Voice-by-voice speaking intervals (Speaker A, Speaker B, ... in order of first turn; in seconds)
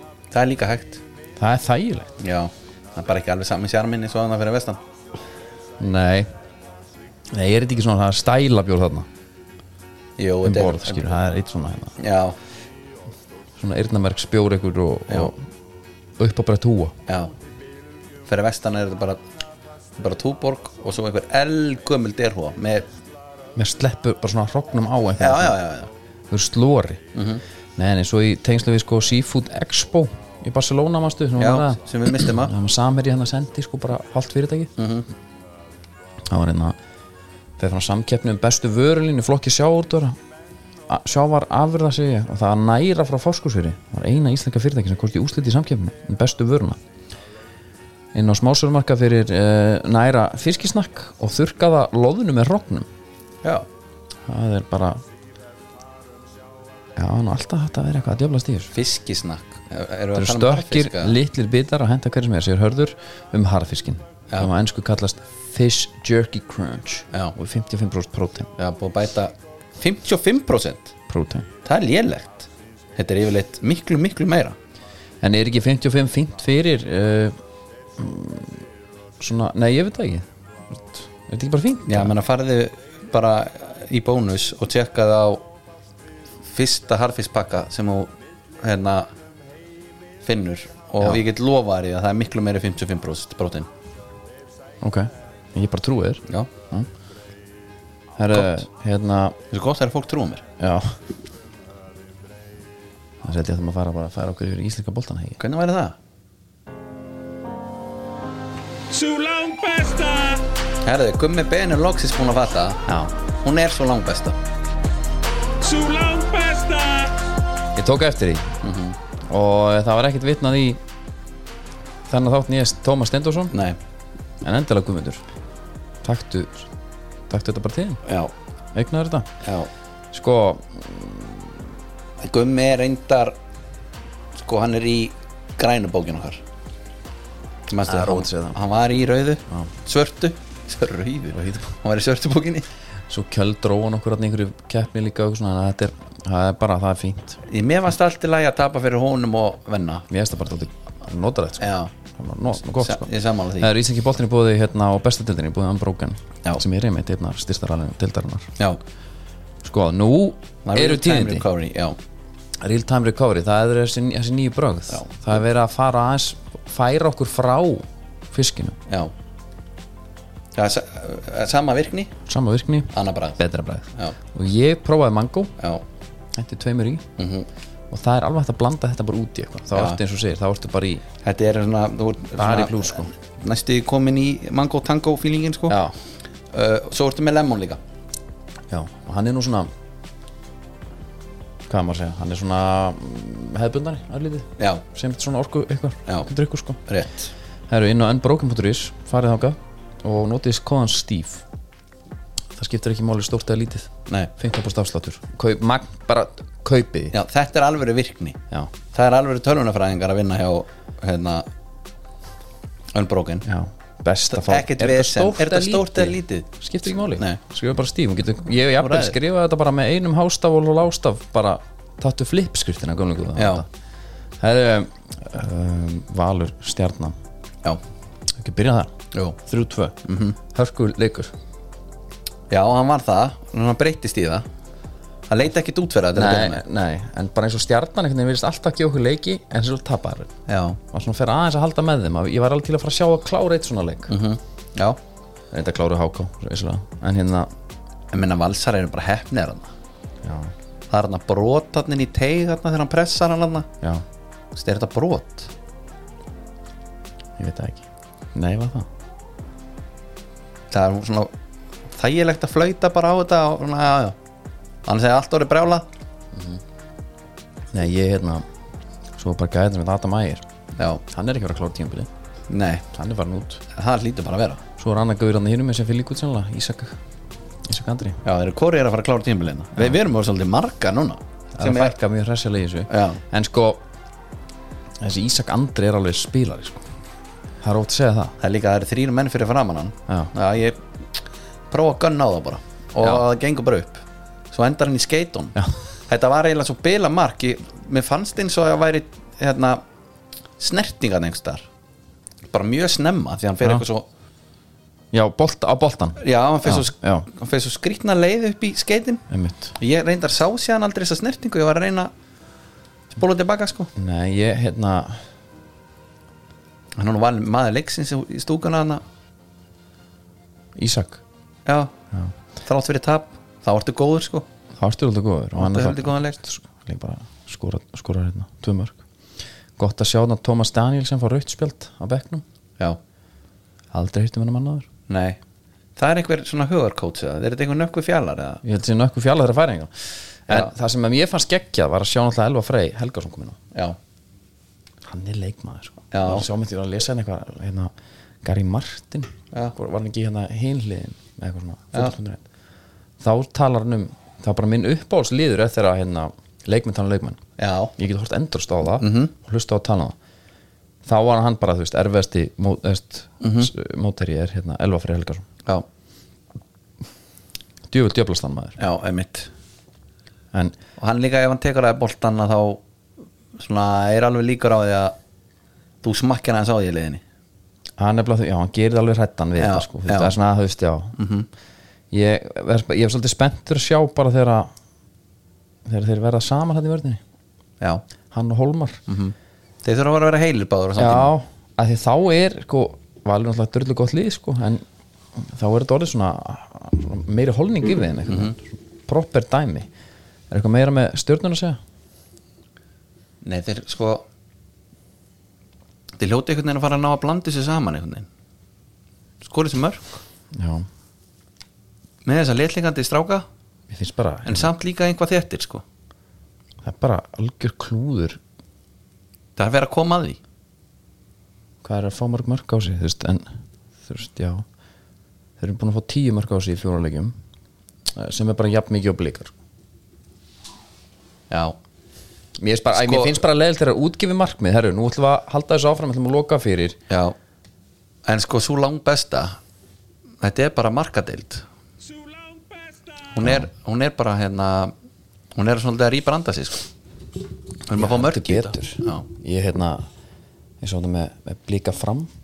Speaker A: 0.3-1.0, 2.2-4.8, 10.2-11.1, 12.0-12.4, 17.1-17.3, 18.3-19.2, 20.0-22.9, 25.2-25.9, 27.1-27.4, 31.4-32.5, 34.8-35.1, 58.7-61.2, 68.6-70.9, 71.6-74.6, 81.9-85.5, 86.5-89.1, 90.2-93.7, 98.3-98.6, 99.5-100.4, 105.4-106.0, 110.8-112.8, 113.4-114.4, 118.6-119.0, 123.5-123.8, 128.1-128.3, 129.4-129.7, 132.2-133.3, 134.4-136.4, 137.7-142.7, 147.5-150.1, 151.6-151.9, 152.8-153.7, 160.7-162.0, 170.6-172.1, 172.9-173.4, 175.6-175.8, 177.2-177.5, 179.7-180.0, 181.2-185.8, 186.5-187.8, 196.9-197.3, 207.1-208.4, 208.9-211.5, 212.9-213.5, 214.3-216.5, 217.1-217.4, 218.8-219.2, 223.4-223.7, 230.1-230.4, 232.5-234.5, 235.3-236.6, 240.5-240.8, 244.1-245.0, 248.1-249.7, 250.9-253.7, 254.6-255.5, 260.7-261.3, 261.9-264.2, 264.9-265.9, 270.8-271.0, 272.5-272.9, 273.7-274.6, 278.2-281.9, 282.9-283.2, 288.4-295.6, 296.1-299.8, 300.6-301.7, 302.5-304.1, 306.2-309.2, 309.8-312.1, 313.1-313.9, 317.0-319.0, 321.7-321.9, 322.6-324.5, 325.6-326.4, 335.1-335.4, 336.0-338.6, 346.1-346.5, 357.6-357.9, 359.0-359.3, 363.4-363.7, 368.8-369.5, 371.0-372.8, 373.6-375.1, 376.0-377.2, 379.6-380.4, 381.2-381.5, 389.1-391.3, 398.3-398.6, 403.4-404.3, 406.2-408.3, 409.4-410.2, 412.2-413.4, 414.4-415.8, 419.6-420.4, 431.5-431.8, 432.9-433.4, 437.1-437.4, 438.3-439.6, 440.4-441.6, 443.3-444.9, 445.6-446.9, 447.9-449.3
Speaker B: 1.4-2.1, 5.8-6.3, 7.3-9.1, 10.4-11.9, 13.6-15.4, 16.2-16.9, 23.6-25.6, 26.3-27.0, 27.8-34.7, 36.3-36.8, 37.6-40.2, 40.9-46.8, 48.1-52.9, 54.3-55.0, 57.0-58.7, 60.1-68.5, 71.1-71.5, 75.2-77.4, 78.0-78.6, 79.2-80.3, 81.2-82.1, 94.8-96.9, 98.2-99.4, 100.6-101.0, 103.2-105.4, 112.9-113.1, 117.8-118.5, 119.3-120.8, 122.1-123.5, 124.4-125.2, 126.0-126.7, 127.3-128.0, 128.7-129.3, 130.1-131.6, 137.8-138.6, 141.3-141.7, 143.1-147.4, 150.1-158.5, 159.6-161.5, 162.6-168.8, 172.3-175.5, 176.3-177.1, 177.9-181.0, 182.4-183.1, 185.7-185.9, 188.7-189.7, 191.7-196.8, 197.7-201.4, 202.6-207.2, 213.4-223.7, 224.4-227.2, 228.3-231.3, 236.1-240.3, 240.9-244.1, 245.5-247.5, 250.2-250.5, 257.4-258.9, 266.3-266.6, 267.7-268.5, 269.2-270.4, 271.0-272.1, 272.9-273.6, 274.8-277.0, 277.7-278.2, 281.6-283.8, 285.0-286.8, 287.6-288.4, 305.1-307.3, 309.3-309.8, 313.9-315.2, 320.8-321.2, 324.8-329.0, 329.8-332.4, 333.9-334.9, 338.6-343.6, 345.0-352.4, 353.2-357.4, 358.0-360.2, 361.1-365.5, 367.9-368.8, 378.0-381.1, 382.1-384.7, 385.9-387.2, 388.3-389.0, 391.0-399.9, 400.5-401.8, 410.5-410.9, 413.9-414.7, 416.8-418.4, 421.8-423.5, 424.0-424.7, 425.6-427.4, 428.1-429.5, 432.6-437.0, 448.0-450.1, 450.8-452.3
Speaker C: 108.9-110.5, 115.6-117.2, 442.1-443.2